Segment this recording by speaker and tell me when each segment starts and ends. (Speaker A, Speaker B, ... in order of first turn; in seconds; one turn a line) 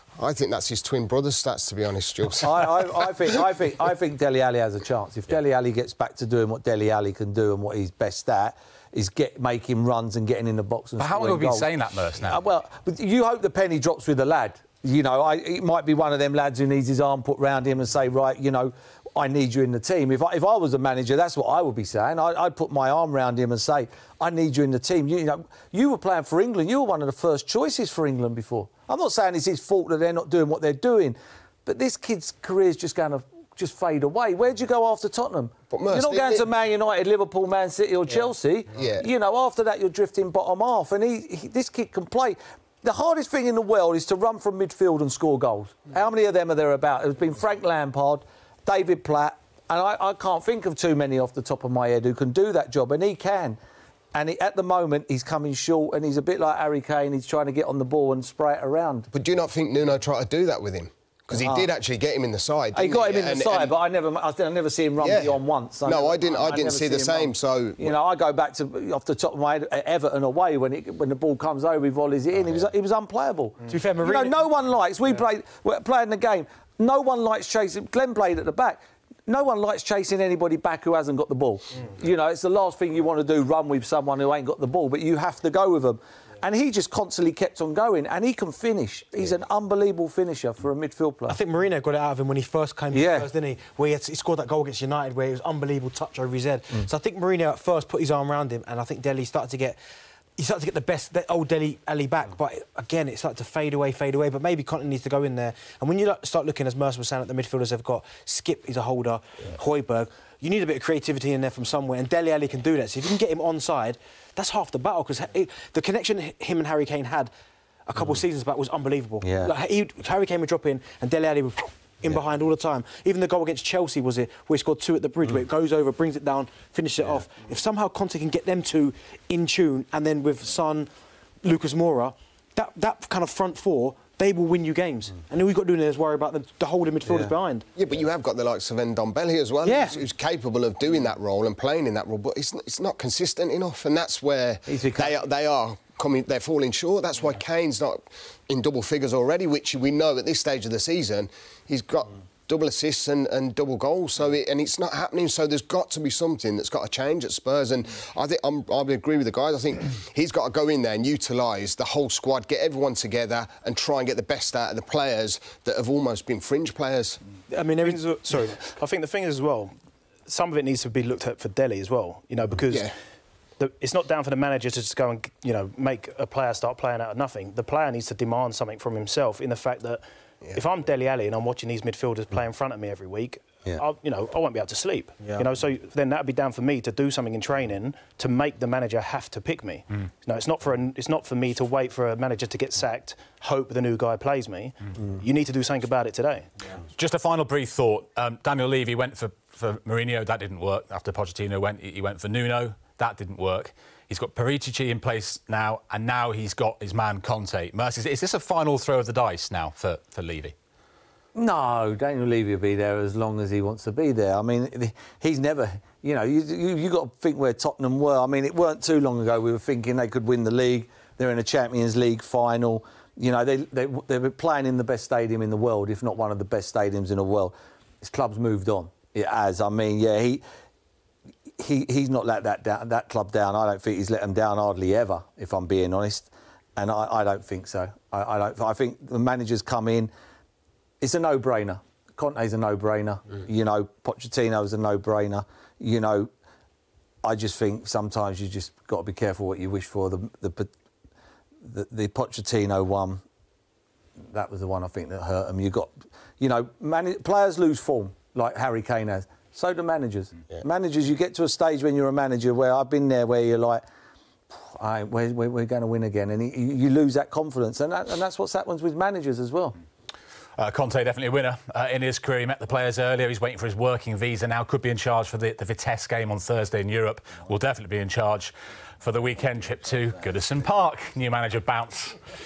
Speaker A: 0.2-3.4
Speaker B: 2.4-11.7
Speaker C: 11.0-12.4
Speaker B: 12.2-53.6
Speaker A: 35.7-36.5
Speaker A: 38.8-39.0
Speaker B: 54.1-59.1
Speaker A: 59.1-63.8
Speaker B: 61.4-61.7
Speaker B: 62.7-91.4
Speaker A: 65.0-68.0
Speaker D: 73.7-74.4
Speaker D: 91.3-99.8
Speaker B: 92.9-93.3
Speaker D: 100.4-117.3
Speaker D: 117.9-130.9
Speaker B: 119.2-119.5
Speaker D: 131.4-137.7
Speaker B: 137.1-137.3
Speaker A: 137.8-167.2
Speaker B: 139.6-140.0
Speaker B: 144.7-145.2
Speaker D: 167.5-168.3
Speaker E: 167.8-169.7
Speaker E: 170.3-172.9
Speaker E: 173.6-196.5
Speaker C: 196.9-210.5
Speaker B: 211.4-230.4
Speaker B: 231.6-240.1
Speaker B: 241.0-246.3
Speaker B: 247.2-250.7
Speaker B: 251.6-253.2
Speaker B: 254.2-263.8
Speaker B: 264.5-269.8
Speaker C: 270.6-282.2